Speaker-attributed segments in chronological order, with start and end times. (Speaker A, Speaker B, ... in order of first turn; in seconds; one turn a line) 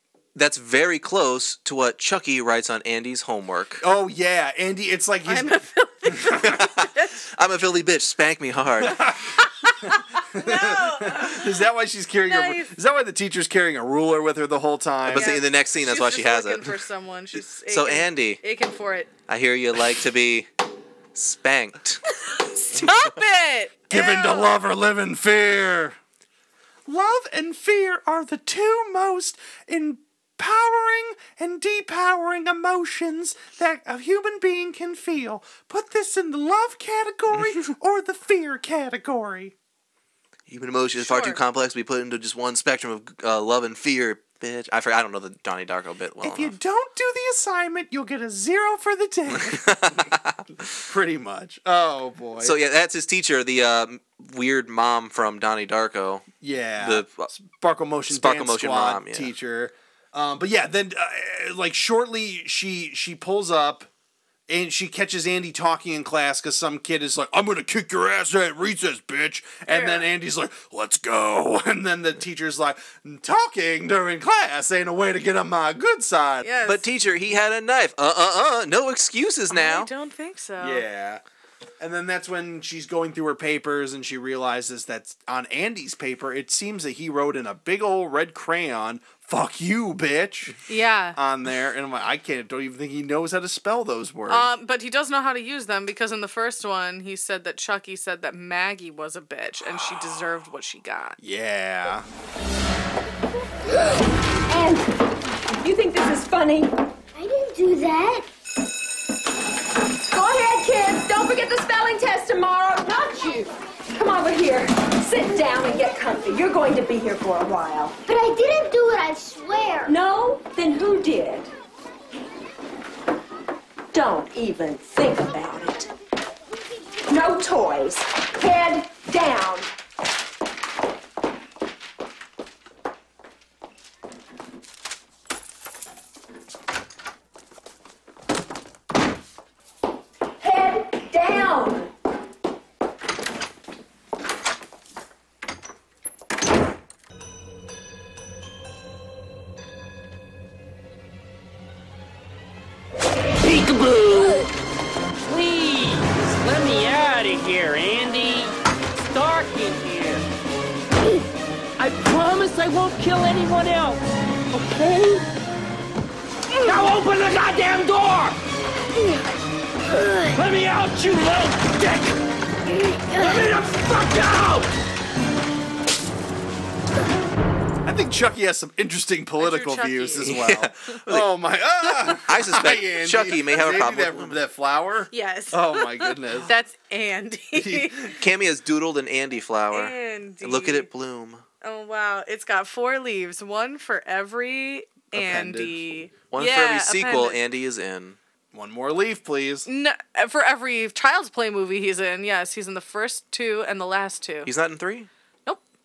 Speaker A: 0.3-3.8
Speaker B: 3.8-5.6
Speaker C: 5.2-7.3
Speaker B: 6.1-6.6
Speaker A: 6.4-6.8
Speaker A: 7.3-9.1
Speaker B: 8.8-9.2
Speaker C: 9.4-11.5
Speaker B: 9.8-15.3
Speaker C: 12.3-12.8
Speaker A: 15.1-16.7
Speaker C: 15.1-19.1
Speaker A: 17.7-18.4
Speaker A: 19.3-20.5
Speaker A: 21.1-22.0
Speaker C: 22.2-24.5
Speaker A: 22.8-23.1
Speaker B: 23.9-26.0
Speaker B: 26.9-39.5
Speaker A: 40.5-46.5
Speaker C: 41.0-41.4
Speaker B: 46.2-50.1
Speaker A: 49.3-50.3
Speaker B: 50.8-52.5
Speaker A: 52.4-56.3
Speaker B: 56.4-63.9
Speaker A: 56.8-57.3
Speaker A: 58.1-59.3
Speaker B: 64.5-76.5
Speaker C: 69.7-70.1
Speaker C: 76.4-76.9
Speaker A: 76.7-79.9
Speaker C: 79.5-80.8
Speaker B: 80.6-81.2
Speaker B: 81.8-90.6
Speaker C: 90.7-91.2
Speaker B: 91.1-94.5
Speaker C: 94.3-101.2
Speaker B: 101.2-102.0
Speaker D: 104.5-104.9
Speaker D: 105.6-106.7
Speaker E: 107.1-108.3
Speaker D: 110.1-118.0
Speaker E: 118.1-119.9
Speaker D: 119.8-121.5
Speaker D: 123.9-125.9
Speaker D: 127.1-129.7
Speaker D: 140.4-141.9
Speaker F: 153.4-154.5
Speaker F: 155.2-160.2
Speaker F: 161.8-164.0
Speaker F: 164.5-165.2
Speaker F: 166.6-168.4
Speaker F: 170.2-172.2
Speaker F: 173.1-174.7
Speaker B: 177.8-186.5
Speaker C: 179.4-180.4
Speaker A: 180.2-181.3
Speaker A: 181.8-184.4
Speaker C: 185.1-188.2
Speaker B: 187.5-188.1
Speaker A: 188.2-191.4
Speaker C: 189.7-190.9
Speaker C: 191.6-197.4
Speaker B: 195.1-195.9
Speaker A: 196.3-198.2
Speaker B: 198.5-199.7
Speaker C: 199.7-204.5
Speaker A: 204.4-205.1